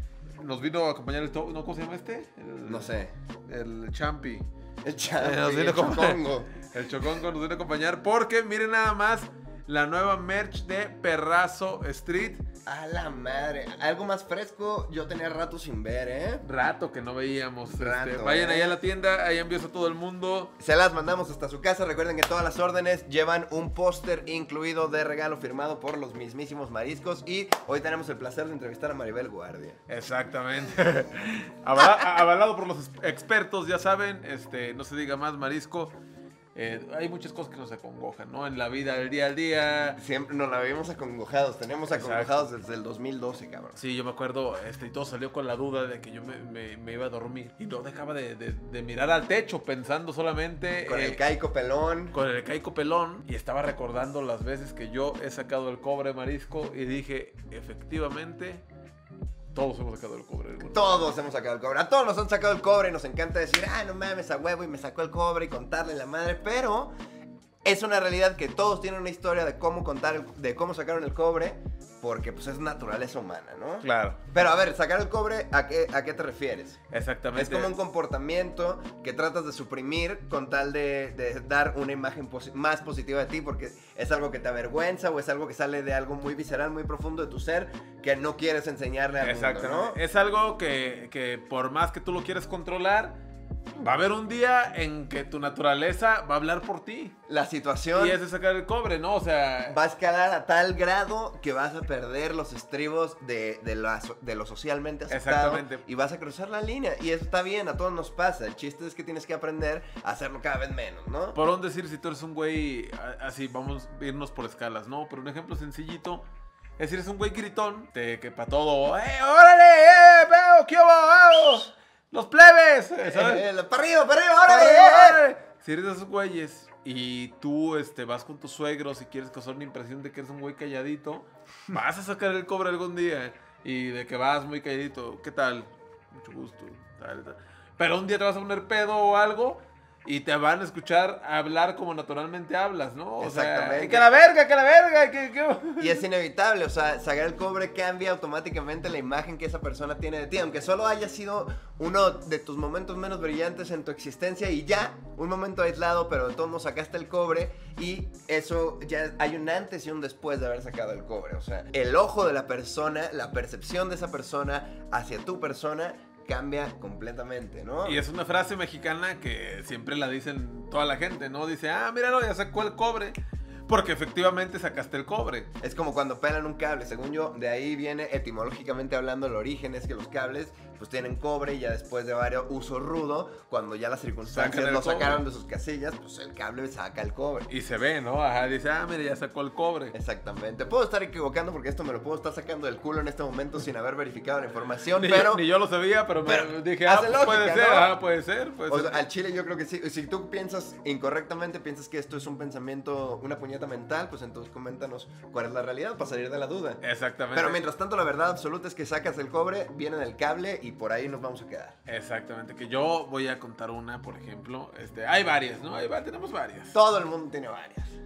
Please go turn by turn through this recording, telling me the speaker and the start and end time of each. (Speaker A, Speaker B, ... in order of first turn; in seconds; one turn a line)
Speaker A: 0.4-2.9
Speaker B: 2.6-3.1
Speaker A: 3.5-4.5
Speaker B: 4.8-6.5
Speaker A: 5.2-12.5
Speaker B: 12.7-16.4
Speaker A: 16.4-20.6
Speaker B: 17.7-18.8
Speaker B: 20.6-29.8
Speaker A: 29.9-36.0
Speaker A: 36.5-40.0
Speaker B: 40.0-43.8
Speaker A: 41.9-42.5
Speaker A: 43.8-51.2
Speaker B: 50.9-52.1
Speaker A: 52.1-58.6
Speaker A: 59.5-61.1
Speaker B: 60.7-66.9
Speaker B: 67.6-76.8
Speaker A: 73.8-74.2
Speaker A: 76.9-77.7
Speaker B: 77.3-90.0
Speaker A: 89.2-93.2
Speaker A: 93.8-97.2
Speaker B: 97.3-98.2
Speaker A: 98.0-99.8
Speaker B: 99.7-111.4
Speaker A: 105.1-105.8
Speaker A: 111.3-116.2
Speaker A: 116.8-123.5
Speaker B: 123.0-125.2
Speaker A: 124.5-146.0
Speaker B: 143.2-144.1
Speaker B: 145.8-168.0
Speaker A: 167.8-173.2
Speaker A: 173.7-175.5
Speaker B: 175.6-187.5
Speaker A: 184.3-185.2
Speaker A: 187.5-189.9
Speaker B: 189.9-195.4
Speaker A: 195.0-199.0
Speaker B: 196.2-197.9
Speaker B: 198.7-206.8
Speaker A: 206.8-207.6
Speaker B: 207.3-211.8
Speaker A: 211.9-216.8
Speaker B: 216.7-218.0